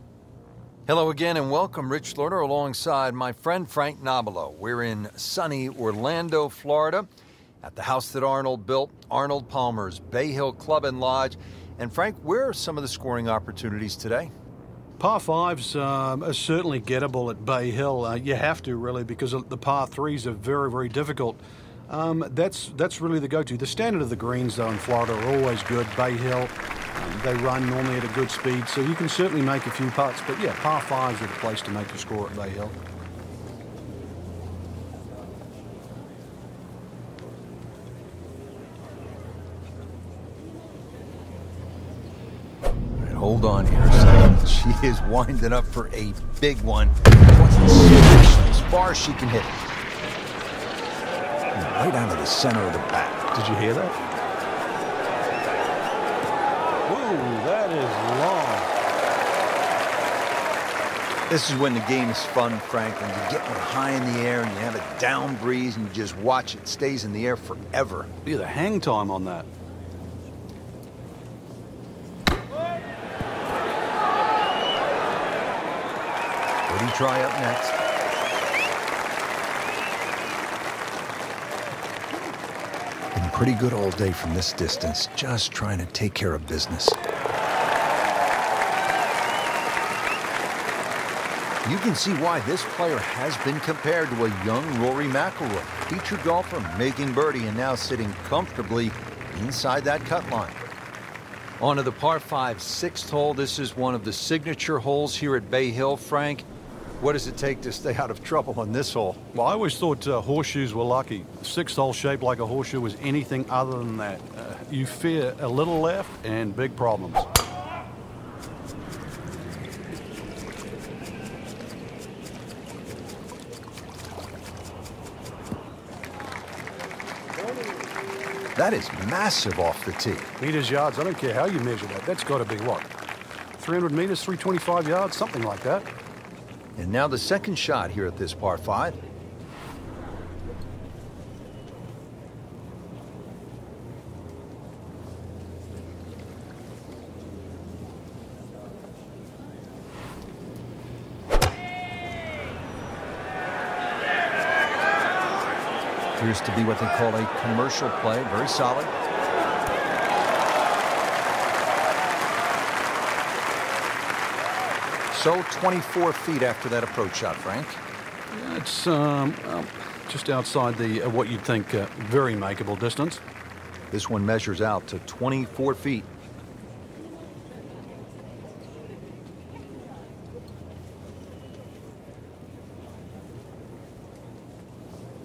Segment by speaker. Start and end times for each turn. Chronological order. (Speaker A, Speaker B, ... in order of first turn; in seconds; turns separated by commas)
Speaker A: 0.9-7.1, Speaker A: 7.6-14.3, Speaker B: 15.0-32.8, Speaker A: 43.0-49.6, Speaker A: 51.5-53.3, Speaker B: 53.3-54.0, Speaker B: 56.9-58.7, Speaker A: 61.3-68.1, Speaker B: 68.2-69.5, Speaker A: 76.7-77.8, Speaker A: 83.2-87.0, Speaker A: 91.7-100.6, Speaker A: 101.6-106.5, Speaker A: 107.0-109.2, Speaker B: 109.3-117.3, Speaker A: 128.6-130.3, Speaker B: 130.4-132.9, Speaker B: 133.6-135.9, Speaker A: 136.8-139.0, Speaker A: 156.2-158.9, Speaker A: 165.1-167.8, Speaker B: 168.3-173.2, Speaker A: 173.9-176.1